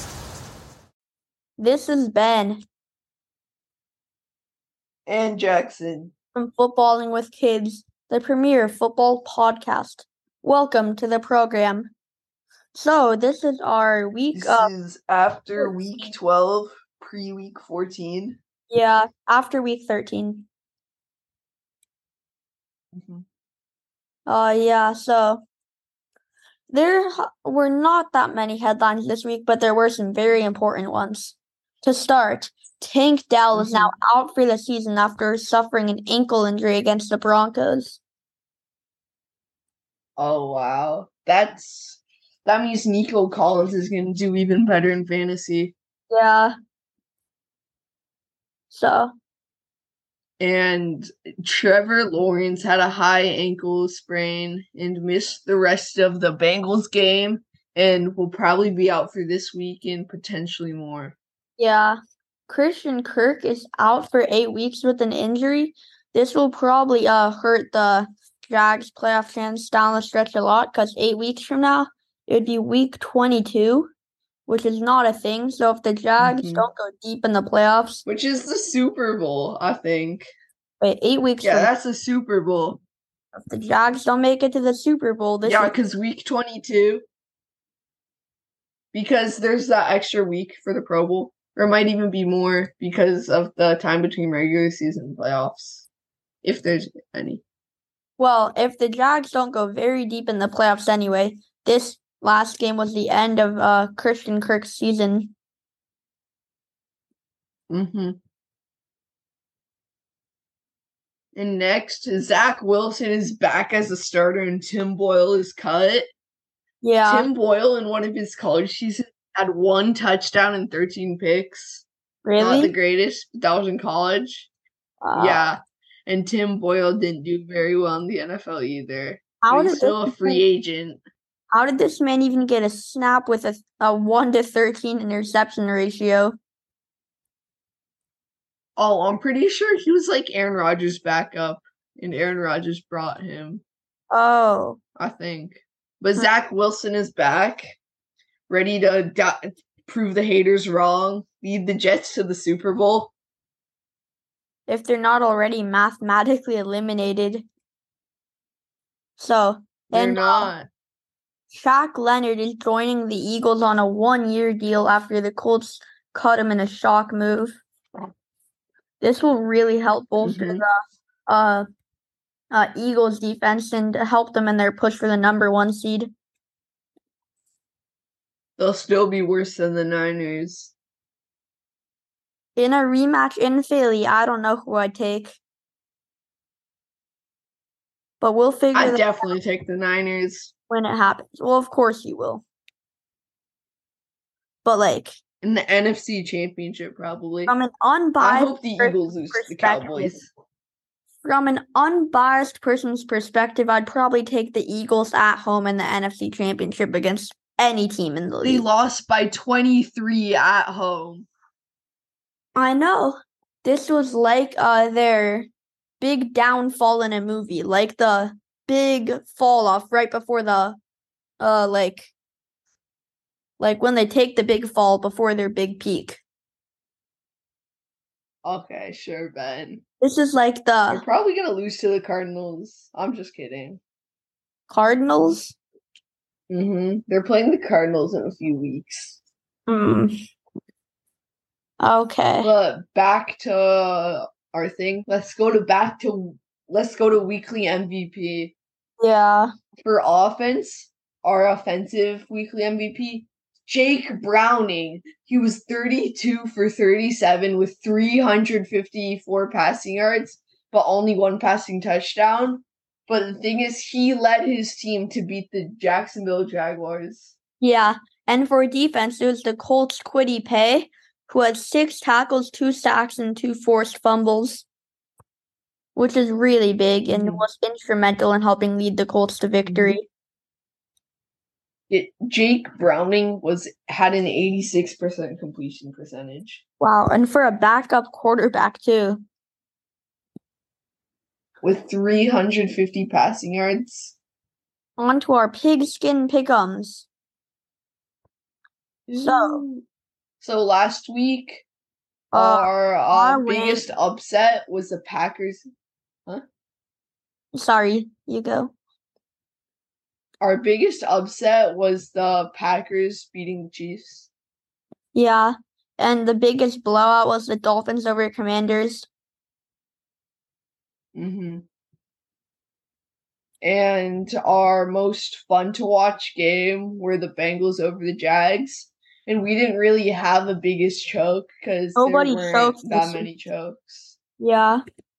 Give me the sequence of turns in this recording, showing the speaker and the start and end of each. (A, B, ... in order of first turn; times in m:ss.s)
0:01.6-0:02.6 A
0:05.1-0:06.1 B
0:06.3-0:11.9 A
0:12.7-0:14.7 A
0:14.3-0:18.4 B
0:18.7-0:20.5 A
0:22.9-0:23.2 B
0:24.3-0:25.4 A
0:26.7-0:38.0 A
0:33.5-0:33.9 B
0:40.2-0:45.7 B
0:46.1-0:46.5 A
0:48.7-0:49.1 A
0:50.4-1:01.2 B
1:01.6-1:13.9 A
1:14.5-1:18.0 A
1:16.2-1:16.7 B
1:18.1-1:20.3 B
1:20.8-1:21.7 A
1:21.4-1:22.8 B
1:23.3-1:25.8 A
1:25.4-1:27.0 B
1:28.9-1:35.9 B
1:36.4-1:37.4 B
1:38.2-1:45.3 A
1:47.7-1:48.2 B
1:51.3-1:56.1 B
1:56.8-1:57.3 A
1:57.1-2:01.8 B
2:02.2-2:02.7 A
2:02.4-2:04.5 B
2:05.0-2:05.5 A
2:05.2-2:11.0 B
2:09.4-2:10.4 A
2:11.5-2:16.4 A
2:18.8-2:23.6 B
2:24.1-2:24.8 A
2:25.0-2:27.8 B
2:28.5-2:33.1 B
2:34.7-2:37.5 A
2:39.2-2:40.5 A
2:39.9-2:40.7 B
2:41.5-2:47.6 A
2:49.0-2:51.7 A
2:50.2-2:50.6 B
2:52.5-2:56.1 A
2:58.6-3:00.7 B
3:02.6-3:05.4 A
3:08.2-3:09.3 A
3:08.7-3:10.5 B
3:10.7-3:12.4 A
3:14.6-3:15.2 A
3:15.4-3:17.5 B
3:17.5-3:20.2 A
3:18.2-3:20.3 B
3:21.2-3:28.7 A
3:28.4-3:31.3 B
3:32.6-3:35.5 A
3:36.0-3:40.8 A
3:41.4-3:42.1 A
3:43.6-3:46.2 A
3:48.4-3:49.8 B
3:50.0-3:51.0 A
3:50.9-3:53.8 B
3:54.7-3:55.6 A
3:56.5-3:59.2 B
3:59.7-4:00.2 A
4:01.8-4:02.5 A
4:02.4-4:08.5 B
4:09.0-4:09.5 A
4:09.8-4:27.3 B
4:27.6-4:34.6 A
4:36.0-4:40.1 A
4:37.1-4:37.4 B
4:39.6-4:40.0 B
4:41.9-4:46.6 B
4:46.8-4:49.2 A
4:51.6-4:54.2 B
4:55.0-4:57.1 A
4:59.1-4:59.8 B
4:59.2-4:59.6 A
5:00.4-5:01.6 B
5:02.3-5:03.8 A
5:02.3-5:05.6 B
5:07.5-5:08.7 A
5:10.4-5:14.3 B
5:15.1-5:19.1 A
5:21.1-5:21.6 B
5:23.6-5:34.2 B
5:32.0-5:33.3 A
5:34.4-5:34.8 A